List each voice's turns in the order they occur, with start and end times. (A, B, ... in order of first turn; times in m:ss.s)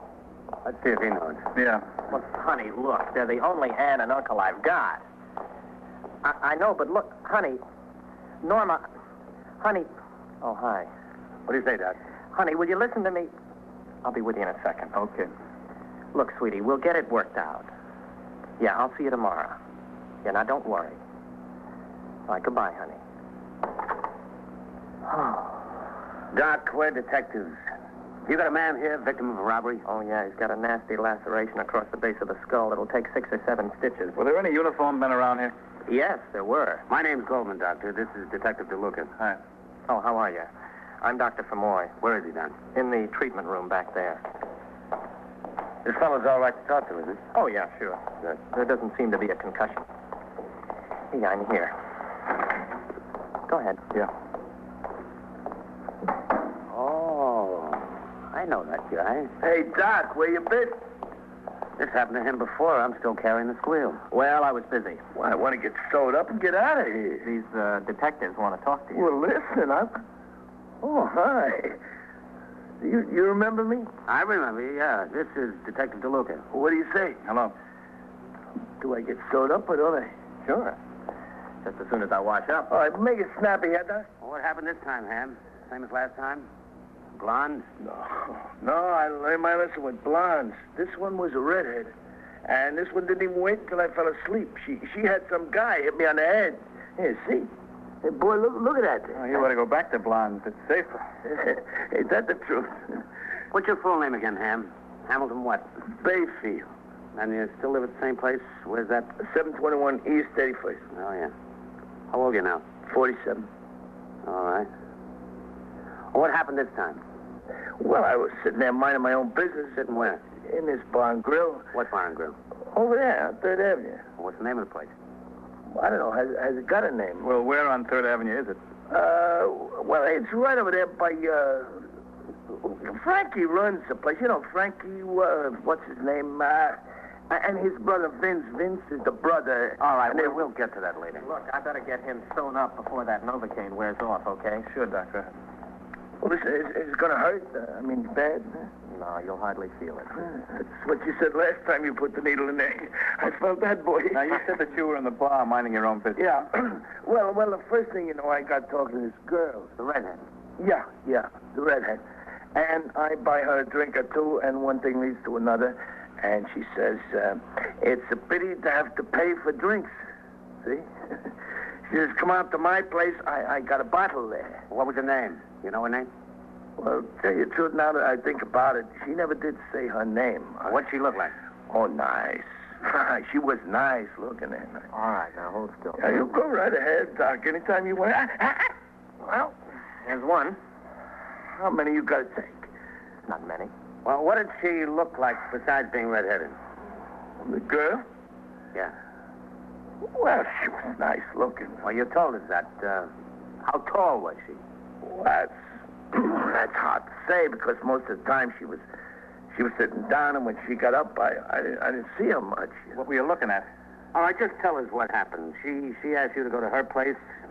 0:00.6-0:01.4 A
0:01.6-0:01.8 B
0:02.1-0:05.0 C
0:06.2-0:07.6 C
0:08.4-0:08.8 C
0:09.6-0:09.9 C
0:10.4-0:10.9 C
0:11.5-0:12.0 A
0:12.4-0:13.3 C
0:14.0-0:15.0 C
0:15.0-0:15.3 B
0:16.1-0:17.7 C
0:18.6-0:19.6 C
0:20.2-0:21.0 C
0:22.3-0:23.0 C
0:25.1-0:25.5 C
0:26.3-0:27.6 A
0:28.2-0:29.8 A
0:29.9-0:34.2 C
0:34.1-0:35.5 B
0:35.9-0:39.1 A
0:36.3-0:36.8 C
0:39.9-0:40.5 C
0:41.0-0:41.9 C
0:42.0-0:42.6 A
0:42.8-0:44.2 C
0:45.8-0:47.2 A
0:47.3-0:49.8 C
0:51.1-0:51.7 C
0:53.5-0:53.8 C
0:56.7-0:59.3 A
0:59.4-1:00.8 D
1:01.8-1:04.0 A
1:04.1-1:05.0 C
1:05.1-1:07.3 D
1:07.2-1:09.1 C
1:09.0-1:09.9 D
1:10.8-1:11.8 D
1:12.8-1:13.9 D
1:14.1-1:16.4 A
1:16.5-1:17.2 D
1:17.2-1:17.5 B
1:18.8-1:20.1 D
1:21.6-1:22.7 C
1:22.7-1:24.1 D
1:24.2-1:26.5 A
1:27.2-1:27.7 A
1:27.8-1:31.9 D
1:32.4-1:37.5 D
1:38.0-1:39.4 D
1:39.1-1:41.0 B
1:41.2-1:43.0 D
1:43.5-1:45.7 A
1:46.0-1:46.7 D
1:47.1-1:49.2 A
1:49.2-1:50.8 D
1:50.9-1:51.3 A
1:52.1-1:52.6 A
1:52.8-1:53.5 D
1:54.2-1:54.7 A
1:56.1-1:57.0 A
1:57.8-2:01.7 D
1:59.8-2:00.2 A
2:01.7-2:02.4 A
2:02.7-2:04.0 D
2:04.2-2:04.9 A
2:05.7-2:07.3 D
2:07.2-2:08.6 B
2:08.9-2:11.9 D
2:12.5-2:20.4 D
2:20.0-2:21.3 A
2:21.2-2:24.6 C
2:24.7-2:25.3 B
2:26.2-2:28.7 D
2:28.9-2:30.1 C
2:30.2-2:34.4 D
2:34.1-2:36.4 B
2:36.2-2:39.7 D
2:39.8-2:40.2 A
2:40.6-2:42.0 D
2:42.6-2:49.9 D
2:50.6-2:51.3 D
2:51.9-2:54.6 D
2:54.7-2:56.1 A
2:56.8-3:00.8 D
3:00.6-3:01.3 A
3:01.7-3:04.9 D
3:04.9-3:06.2 C
3:06.0-3:08.7 D
3:09.2-3:10.6 C
3:11.5-3:12.7 D
3:13.3-3:13.7 C
3:14.0-3:16.6 A
3:17.4-3:18.0 D
3:20.0-3:21.8 D
3:21.8-3:23.1 A
3:23.6-3:24.6 A
3:25.0-3:25.5 D
3:26.1-3:28.8 D
3:29.5-3:32.9 D
3:33.0-3:33.7 B
3:34.1-3:37.2 A